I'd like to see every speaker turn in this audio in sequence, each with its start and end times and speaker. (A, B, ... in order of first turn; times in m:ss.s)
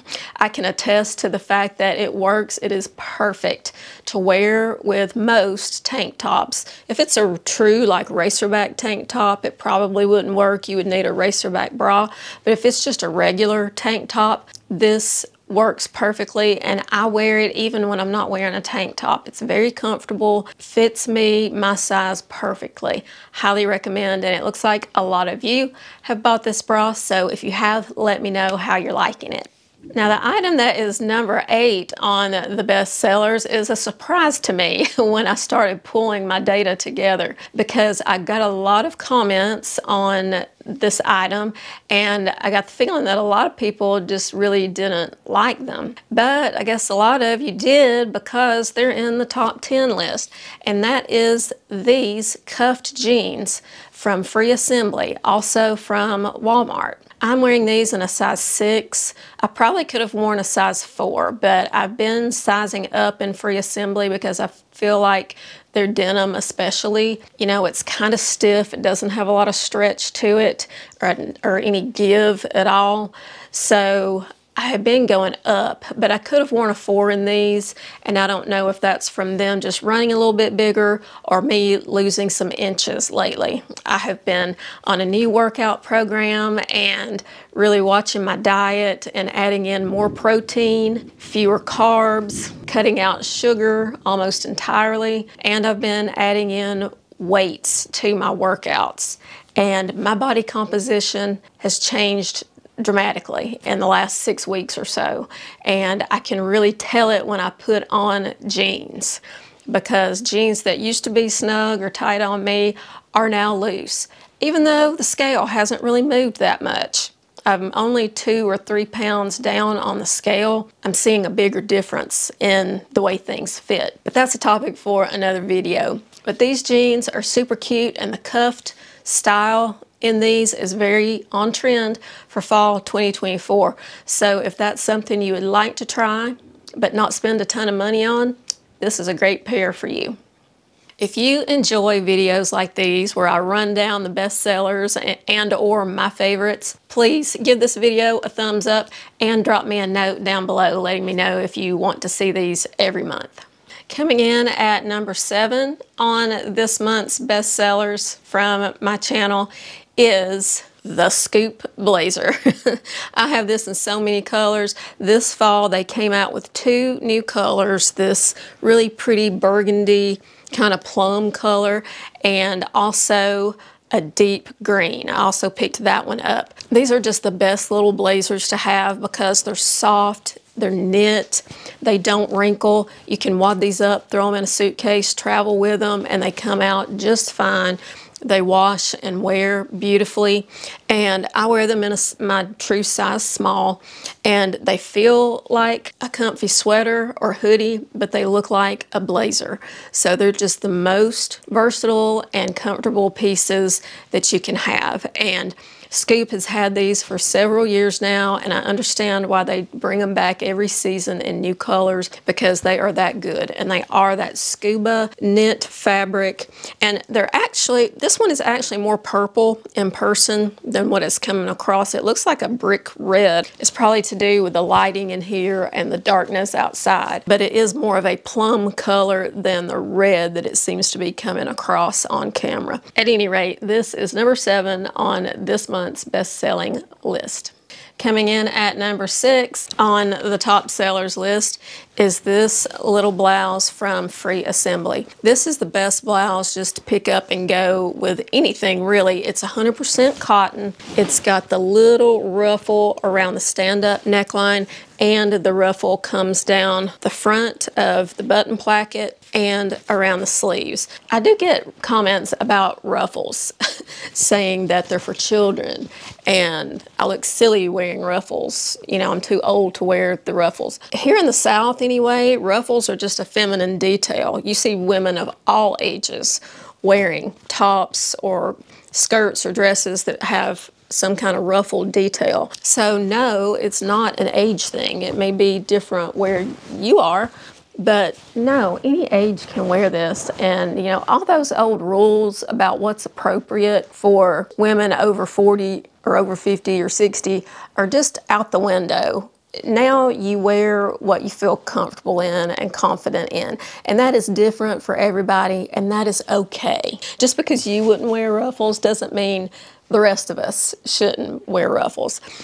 0:00.4-2:20.2 A
2:21.0-4:23.5 A
4:24.1-5:12.2 A